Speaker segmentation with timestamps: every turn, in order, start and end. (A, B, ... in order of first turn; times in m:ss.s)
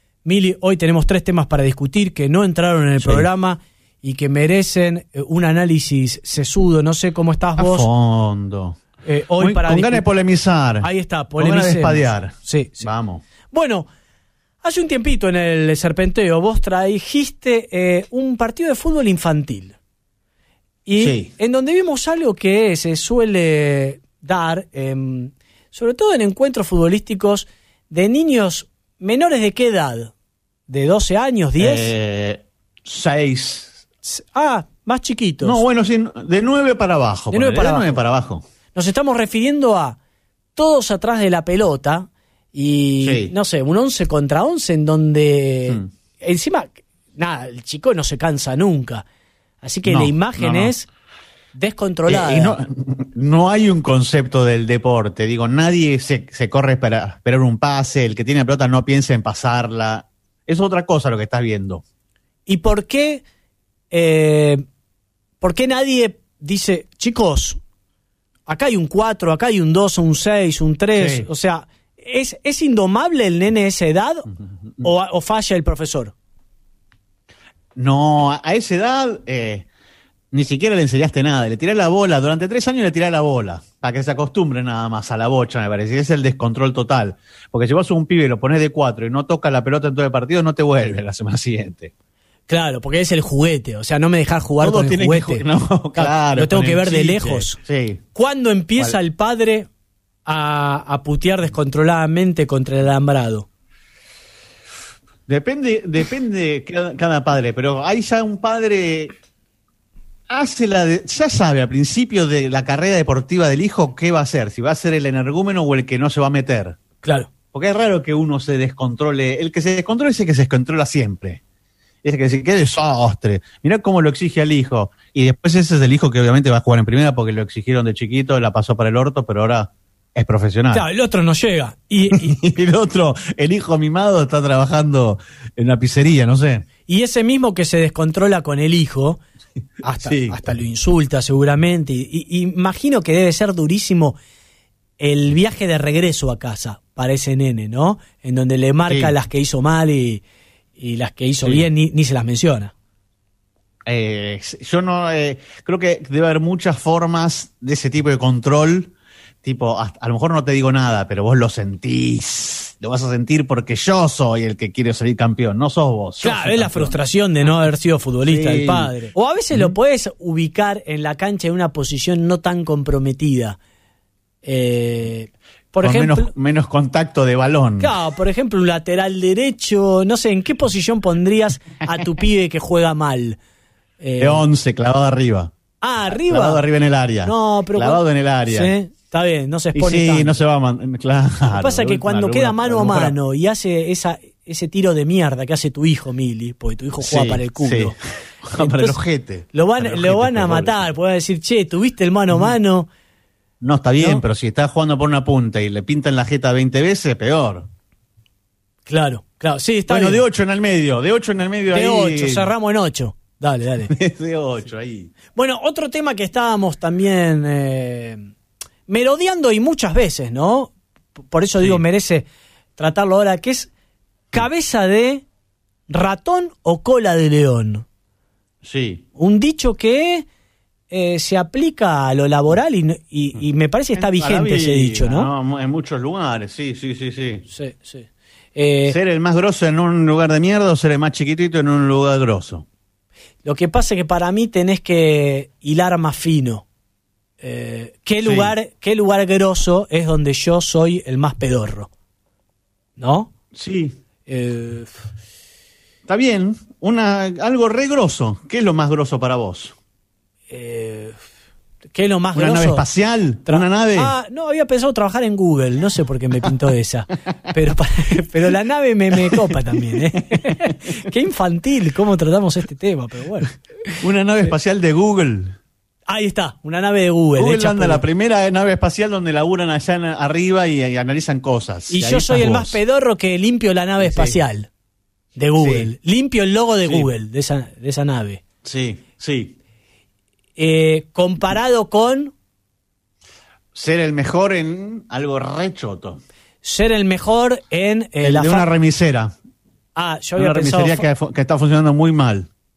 0:00.2-0:07.9 A
0:03.0-0:03.3 B
0:07.6-0:08.8 B
0:09.0-0:10.1 A
0:09.4-0:10.9 B
0:10.8-0:12.9 A
0:11.4-0:13.2 B
0:13.5-0:13.9 A
0:14.6-0:19.8 A
0:20.8-0:30.1 A
0:21.0-0:21.3 B
0:30.7-0:31.9 A
0:31.6-0:33.8 B
0:34.0-0:35.6 A
0:35.4-0:38.4 B
0:37.3-0:38.0 A
0:38.7-0:40.0 A
0:40.6-0:49.0 A
0:43.0-0:43.3 B
0:49.6-0:50.9 A
0:49.8-0:50.7 B
0:51.5-0:52.6 A
0:52.1-1:01.8 B
1:02.5-1:03.2 A
1:03.9-1:04.6 A
1:05.4-1:07.6 A
1:08.5-1:14.3 A
1:11.0-1:11.3 B
1:14.8-1:16.1 A
1:17.8-1:19.7 B
1:20.3-1:31.9 B
1:32.5-1:35.4 A
1:34.6-1:38.0 B
1:36.0-1:37.6 A
1:38.1-1:39.7 A
1:40.2-1:43.5 A
1:45.3-1:49.1 B
1:50.3-1:56.8 B
1:57.0-1:57.3 A
1:57.5-2:01.4 B
2:02.0-2:10.8 B
2:10.7-2:12.4 A
2:12.1-2:16.7 B
2:16.9-2:19.2 A
2:19.8-2:24.2 A
2:20.0-2:20.4 B
2:25.0-2:30.2 A
2:28.9-2:29.1 B
2:30.8-2:32.7 A
2:33.9-2:46.9 B
2:46.2-2:53.6 A
2:48.2-2:49.0 B
2:54.4-2:56.3 A
2:55.8-2:57.9 B
2:57.8-3:03.4 A
3:04.0-3:04.4 A
3:04.2-3:05.5 B
3:05.8-3:06.6 A
3:06.1-3:08.7 B
3:07.2-3:10.4 A
3:09.7-3:13.2 B
3:11.5-3:18.0 A
3:17.0-3:20.9 B
3:18.5-3:19.0 A
3:19.5-3:22.9 A
3:23.6-3:27.7 B
3:28.8-3:30.2 A
3:29.9-3:32.5 B
3:31.7-3:33.9 A
3:33.9-3:35.1 B
3:35.3-3:38.3 A
3:38.9-3:40.7 A
3:41.3-3:43.7 A
3:41.6-3:41.8 B
3:44.3-3:45.2 A
3:45.9-3:47.8 A
3:48.6-3:49.0 B
3:49.2-3:50.2 A
3:50.9-3:55.3 A
3:54.0-3:57.4 B
3:57.5-3:59.0 A
3:58.9-4:02.6 B
4:03.4-4:06.6 A
4:07.4-4:11.9 A
4:08.2-4:08.5 B
4:13.0-4:13.3 A
4:13.5-4:14.0 B
4:14.2-4:14.9 A
4:16.1-4:19.7 B
4:20.5-4:21.1 A
4:21.9-4:22.8 A
4:22.3-4:24.1 B
4:23.5-4:34.0 A
4:29.9-4:30.7 B
4:34.0-4:35.6 B
4:36.1-4:38.0 A
4:37.4-4:42.8 B
4:41.9-4:44.7 A
4:44.0-4:44.4 B
4:45.4-4:48.4 A
4:45.6-4:45.9 B
4:48.6-4:49.6 B
4:50.6-4:52.3 A
4:53.7-4:56.2 B
4:56.6-4:58.7 A
4:58.2-4:59.3 B
4:59.9-5:01.0 A
5:00.4-5:02.5 B